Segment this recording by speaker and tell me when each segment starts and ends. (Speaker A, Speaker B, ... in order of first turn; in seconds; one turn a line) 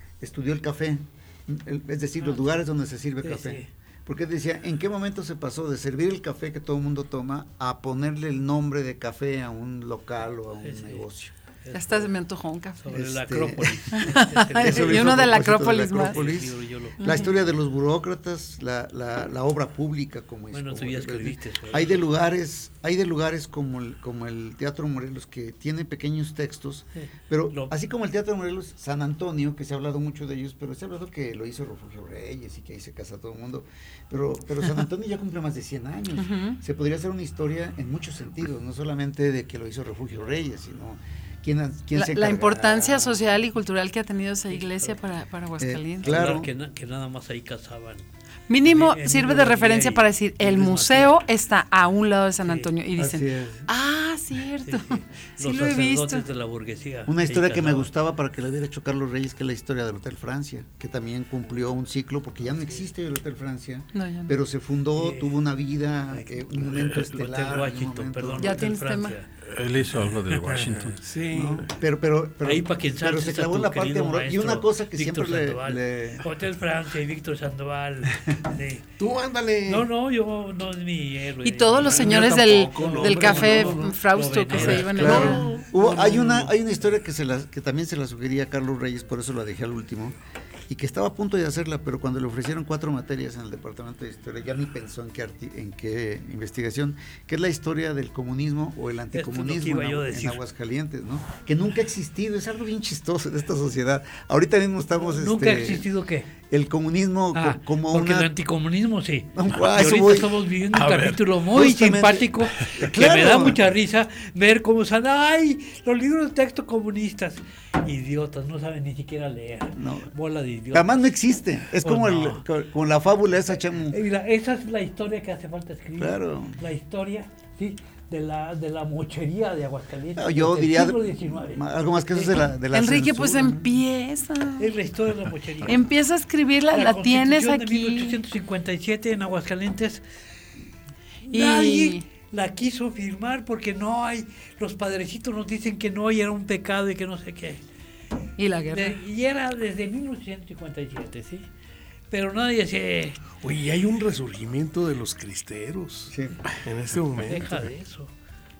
Speaker A: 0.2-11.3
Speaker B: 2.2-2.6
Speaker B: 3.2-3.7
Speaker B: 10.6-11.1
Speaker B: 11.6-12.1
Speaker C: 11.7-12.8
Speaker B: 12.8-15.4
Speaker A: 12.9-43.4
Speaker C: 13.9-16.2
Speaker B: 16.0-17.4
Speaker C: 17.0-17.3
Speaker B: 20.5-22.1
Speaker B: 26.9-27.7
Speaker C: 36.1-36.6
Speaker C: 41.9-46.2
Speaker B: 44.5-44.9
Speaker A: 45.6-46.5
Speaker B: 46.0-48.0
Speaker C: 48.5-56.2
Speaker B: 48.6-51.2
Speaker A: 53.0-53.7
Speaker B: 54.7-57.9
Speaker A: 57.0-68.6
Speaker C: 63.9-64.3
Speaker B: 65.0-65.4
Speaker B: 66.1-69.3
Speaker C: 68.4-69.2
Speaker D: 69.4-71.0
Speaker E: 70.5-71.7
Speaker A: 71.3-76.2
Speaker B: 72.4-78.8
Speaker E: 79.0-79.9
Speaker B: 79.7-86.4
Speaker C: 81.4-85.5
Speaker E: 81.8-83.9
Speaker E: 84.5-85.7
Speaker A: 84.6-90.2
Speaker A: 90.7-105.9
Speaker B: 99.1-100.4
Speaker B: 105.0-106.3
Speaker A: 106.4-108.3
Speaker B: 107.3-121.1
Speaker A: 109.3-110.3
Speaker D: 110.7-111.2
Speaker A: 111.5-113.6
Speaker A: 119.8-120.1
Speaker A: 120.7-124.0
Speaker B: 121.8-122.4
Speaker B: 123.9-132.4
Speaker A: 126.0-126.6
Speaker A: 130.2-133.7
Speaker C: 132.7-134.7
Speaker B: 134.6-135.9
Speaker C: 135.7-138.2
Speaker B: 136.7-140.0
Speaker B: 141.3-147.6
Speaker C: 141.3-142.0
Speaker C: 148.4-149.0
Speaker B: 148.7-151.5
Speaker B: 152.1-153.3
Speaker E: 153.4-157.7
Speaker A: 156.1-156.4
Speaker B: 157.1-158.1